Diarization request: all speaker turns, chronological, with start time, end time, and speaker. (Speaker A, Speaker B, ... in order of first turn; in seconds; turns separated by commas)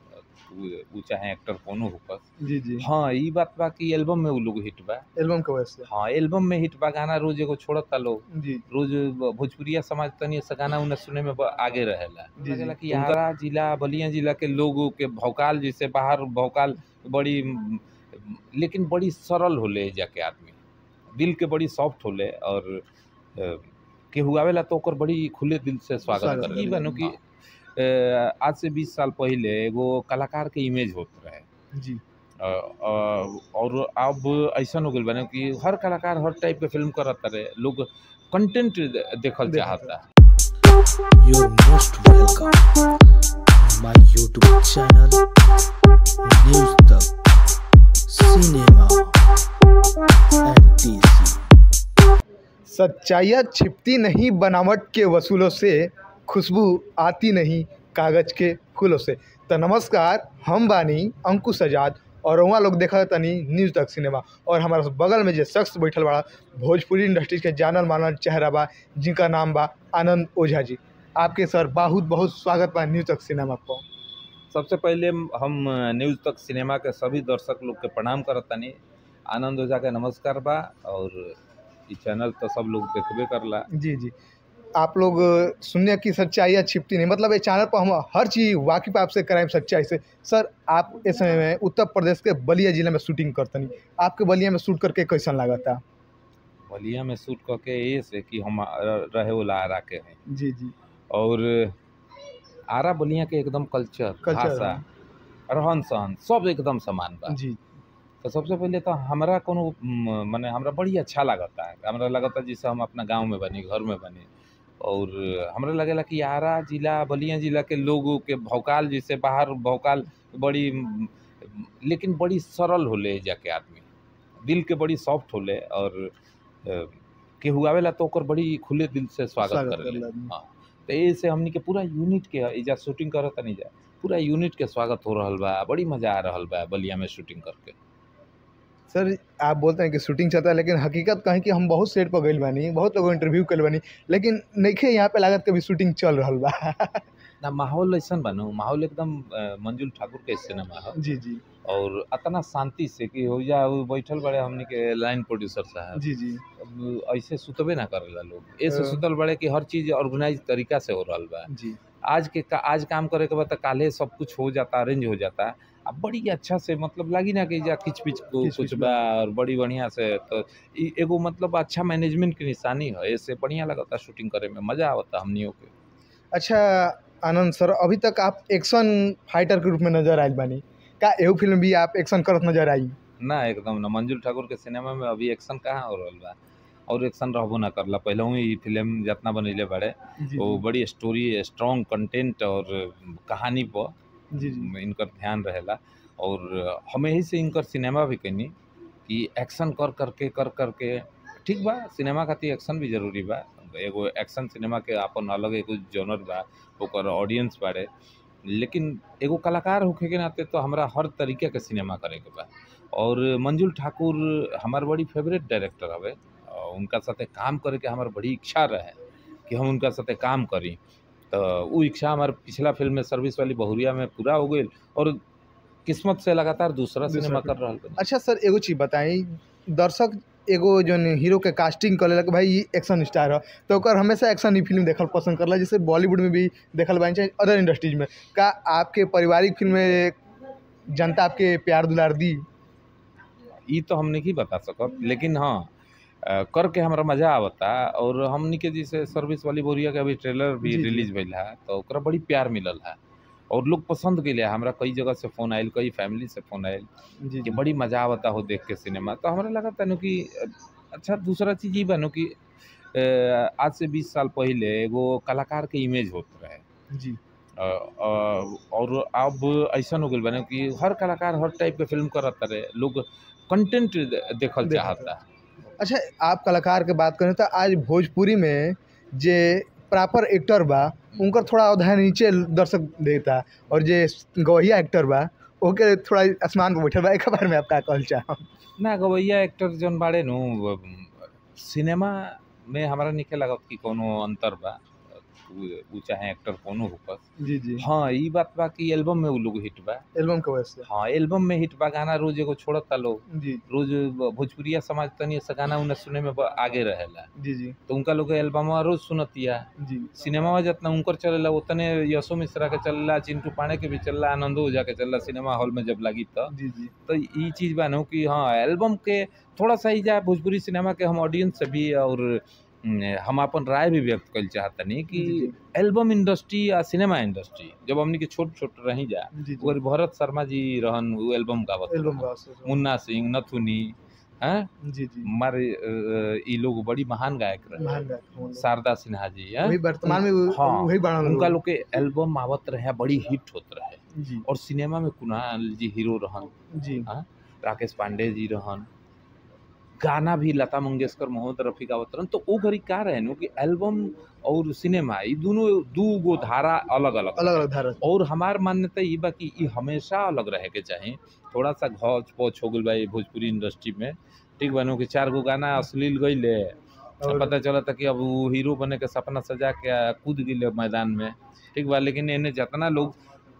Speaker A: 0.3-2.2, Speaker B: 2.4-2.9, Speaker A: 2.8-5.1, Speaker B: 5.2-5.9, Speaker A: 5.9-20.6, Speaker B: 8.3-8.7, Speaker B: 12.4-13.2, Speaker A: 21.1-22.8, Speaker A: 23.4-27.2, Speaker B: 26.1-27.1, Speaker A: 27.7-31.5, Speaker B: 31.7-32.0, Speaker A: 32.4-40.1, Speaker B: 39.5-40.0, Speaker C: 41.2-42.7, Speaker C: 43.5-45.2, Speaker C: 46.2-47.1, Speaker C: 48.1-49.1, Speaker C: 50.4-51.4, Speaker B: 52.7-73.8, Speaker A: 74.5-83.7, Speaker B: 83.7-84.1, Speaker B: 84.8-95.8, Speaker A: 96.7-100.2, Speaker B: 100.3-100.7, Speaker A: 101.1-101.8, Speaker A: 102.7-104.8, Speaker B: 104.2-104.8, Speaker A: 105.5-107.4, Speaker B: 107.3-107.7, Speaker A: 108.2-114.3, Speaker A: 114.8-123.8, Speaker A: 124.4-126.1, Speaker A: 126.6-137.8, Speaker B: 129.4-130.3, Speaker B: 138.9-147.1, Speaker A: 147.4-151.0, Speaker B: 150.9-151.4, Speaker A: 151.6-156.0, Speaker B: 155.9-156.4, Speaker A: 156.6-161.5, Speaker B: 158.7-159.0, Speaker B: 161.5-161.8, Speaker A: 162.1-175.7, Speaker B: 168.4-169.0, Speaker B: 176.3-183.0, Speaker A: 183.2-186.4, Speaker A: 186.9-198.5, Speaker B: 190.2-190.6, Speaker B: 194.3-194.7, Speaker A: 199.1-207.9, Speaker A: 208.4-220.8, Speaker A: 221.3-225.2, Speaker A: 225.9-228.0, Speaker B: 227.1-240.2, Speaker B: 240.9-242.5, Speaker A: 243.7-253.0, Speaker B: 250.6-251.1, Speaker A: 253.5-256.9, Speaker B: 257.2-257.6, Speaker A: 257.4-262.4, Speaker A: 262.9-266.6, Speaker B: 266.9-267.2, Speaker A: 267.6-275.2, Speaker B: 274.6-275.1, Speaker B: 275.8-288.5, Speaker A: 288.8-297.2, Speaker B: 297.4-297.9, Speaker A: 297.8-300.1, Speaker B: 300.1-300.9, Speaker A: 300.9-307.3, Speaker B: 303.3-303.6, Speaker B: 307.4-307.8, Speaker A: 307.9-316.6, Speaker B: 309.8-310.1, Speaker B: 316.5-316.9, Speaker A: 317.1-334.7, Speaker B: 325.1-325.6, Speaker B: 329.3-329.8, Speaker B: 331.9-332.8, Speaker B: 334.8-335.3, Speaker A: 335.2-337.9, Speaker B: 337.8-338.6, Speaker A: 338.5-346.5, Speaker B: 339.6-341.6, Speaker B: 344.1-344.5, Speaker B: 346.7-347.1, Speaker A: 347.1-348.9, Speaker A: 350.0-373.2, Speaker B: 357.4-358.1, Speaker B: 367.2-367.6